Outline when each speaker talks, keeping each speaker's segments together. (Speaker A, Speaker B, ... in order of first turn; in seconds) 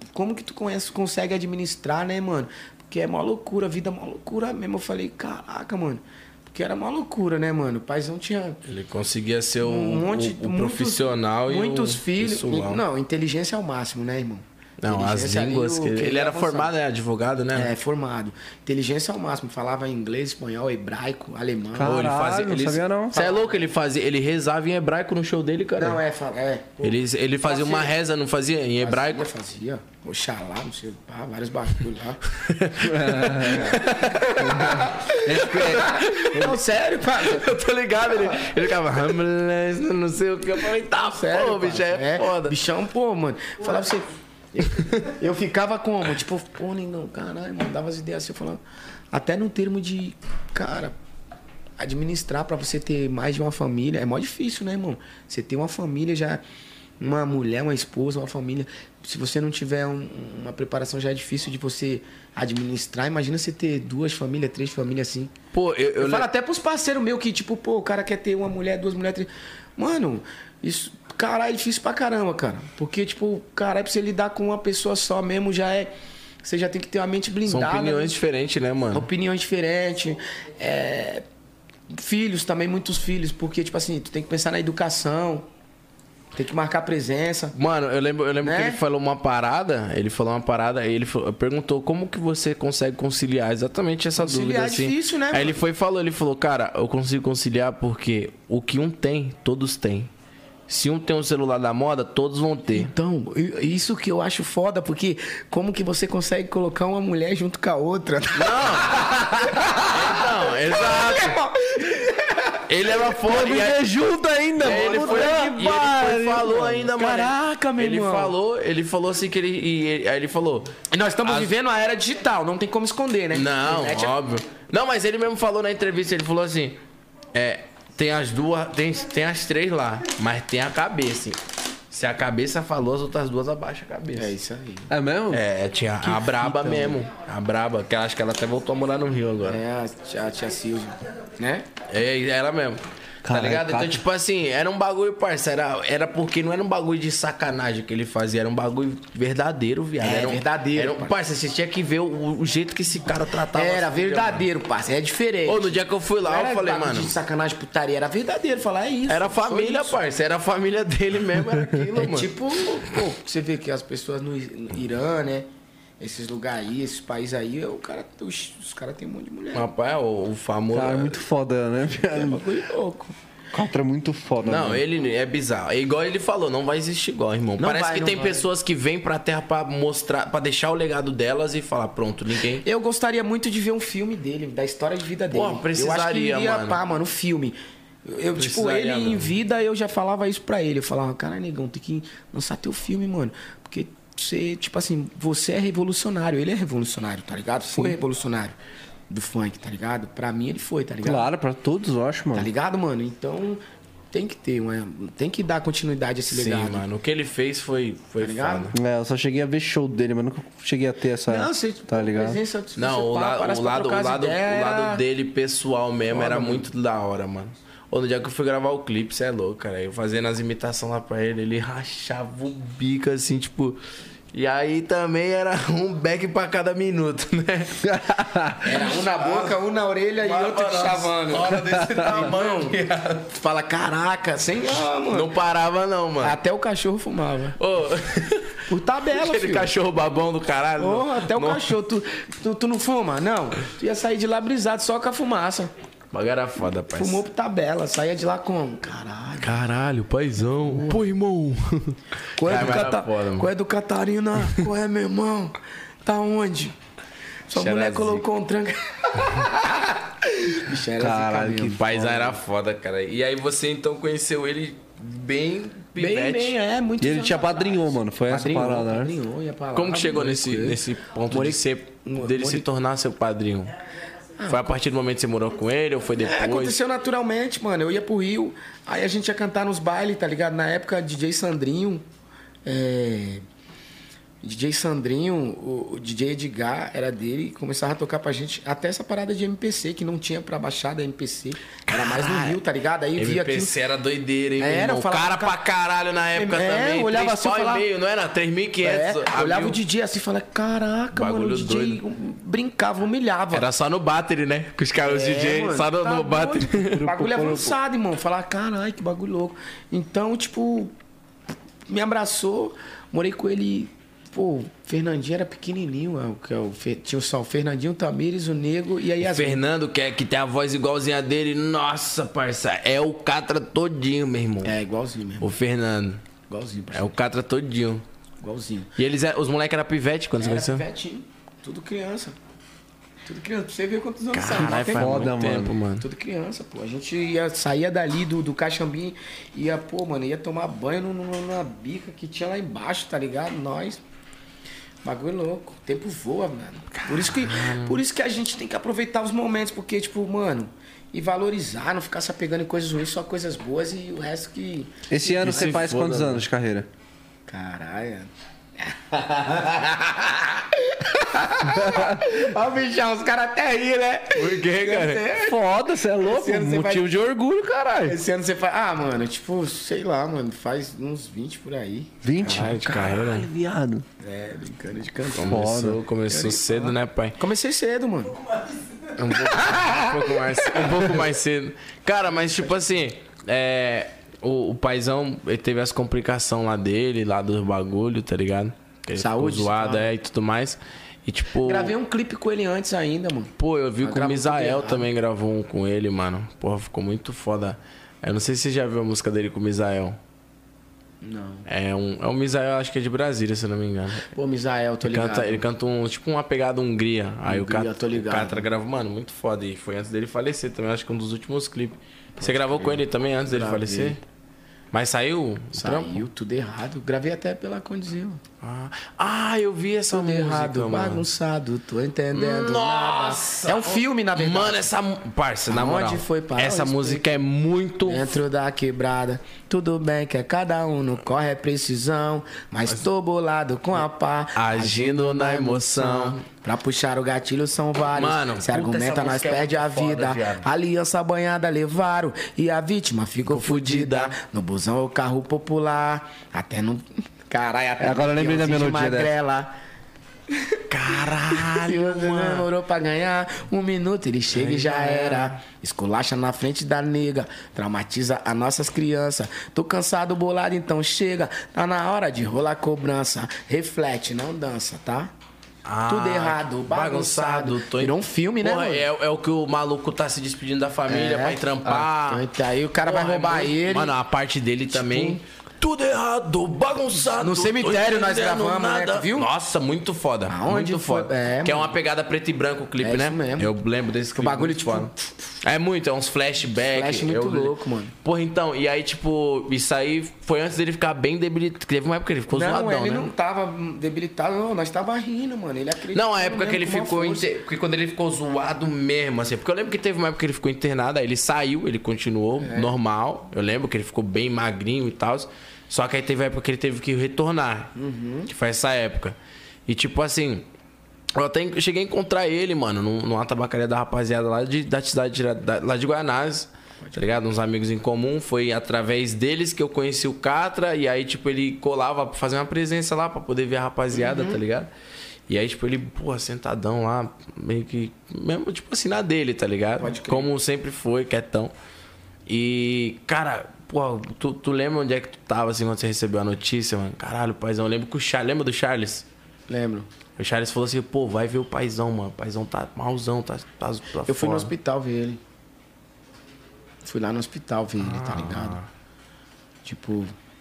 Speaker A: 0.1-8.6, 9.6-16.7, 17.5-22.0, 23.1-23.6, 25.8-27.9, 28.8-32.2, 33.4-37.5, 38.1-38.6, 41.0-51.0, 51.8-56.4, 57.0-65.3, 66.0-75.9, 76.4-78.1, 78.9-81.2, 81.9-85.5, 86.3-87.5, 88.4-88.8, 94.2-95.6, 102.7-112.6, 114.6-118.3, 120.9-124.2, 134.1-134.9, 136.5-136.9, 139.4-141.7, 150.0-151.1, 153.5-160.0, 161.8-165.5, 166.0-169.7, 172.0-173.2, 177.6-178.5, 182.6-198.6, 199.1-201.3, 202.3-203.6, 204.1-206.8, 208.2-208.7, 211.3-215.0, 216.1-216.7, 228.6-232.8, 233.3-235.3, 236.2-237.6, 238.7-239.7, 240.8-245.7, 246.9-249.6, 250.7-251.0, 252.3-256.8, 257.5-262.4, 265.9-272.7, 274.4-274.8, 276.2-282.0, 282.6-283.4, 284.4-293.8, 294.6-295.6, 296.3-297.9, 298.8-303.7, 305.0-310.9, 311.9-319.6, 324.6-325.5, 326.5-327.1, 328.4-328.9, 330.4-332.4, 333.2-335.3, 336.0-344.0, 345.0-355.8, 357.5-365.6, 366.2-367.1, 368.0-372.8, 374.2-375.7, 376.3-378.4, 379.2-381.2, 389.1-390.1, 391.6-395.1, 401.2-401.7, 404.2-405.6, 407.5-408.7, 412.4-414.2, 415.8-418.4, 420.1-424.9, 425.7-427.2, 428.0-449.7, 450.5-450.8, 451.5-465.3, 466.1-469.1, 471.1-474.1, 474.9-475.4, 477.2-479.5, 480.5-481.9, 483.0-483.7, 484.4-485.3, 486.9-488.1, 492.5-497.5, 502.6-502.9, 507.9-508.5, 517.0-517.4, 524.1-524.6, 530.0-530.5, 539.7-540.1, 544.2-545.4, 547.0-548.8, 549.8-550.3
Speaker B: 8.7-12.8, 14.8-17.7, 21.8-26.0, 26.8-29.3, 32.3-36.6, 37.1-42.6, 44.6-45.0, 65.5-66.3, 77.5-79.1, 87.5-100.1, 100.7-102.9, 108.3-109.1, 109.8-111.4, 112.7-113.8, 114.6-121.5, 123.3-126.8, 127.3-131.4, 131.9-134.3, 135.3-139.6, 141.9-154.4, 155.4-157.1, 159.1-162.3, 169.5-171.2, 174.4-182.6, 185.3-186.8, 188.3-189.3, 206.3-208.7, 212.8-223.8, 224.3-227.9, 228.7-229.5, 230.2-233.3, 235.1-236.4, 237.6-241.7, 246.1-247.2, 249.4-253.5, 257.5-258.2, 261.7-266.6, 269.7-273.7, 274.5-276.8, 291.9-292.6, 293.1-299.8, 301.1-302.0, 303.5-307.1, 319.2-324.8, 325.4-326.2, 326.9-328.0, 329.0-330.8, 334.3-336.1, 346.9-348.0, 355.4-356.4, 364.3-365.3, 372.4-373.5, 375.3-377.4, 379.1-391.9, 393.6-400.2, 401.7-404.3, 405.0-414.2, 414.9-416.2, 418.6-421.2, 422.3-428.3, 434.6-436.4, 438.1-440.7, 443.5-444.3, 450.9-452.7, 454.5-455.6, 465.8-472.4, 473.0-493.3, 496.1-507.9, 508.5-509.4, 509.9-510.7, 511.3-524.9, 525.5-531.7, 532.5-539.2, 540.4-544.7, 548.0-548.9
Speaker C: 21.7-23.2, 32.8-36.5, 113.2-116.7, 134.9-135.4, 136.2-136.9, 143.2-144.0, 170.7-172.4, 173.5-174.8, 201.0-202.5, 208.7-212.4, 227.9-228.6, 261.0-261.8, 267.0-269.1, 307.0-307.7, 334.6-335.8, 355.1-356.9, 361.6-362.2, 365.3-368.2, 372.2-374.0, 375.4-376.0, 448.0-449.3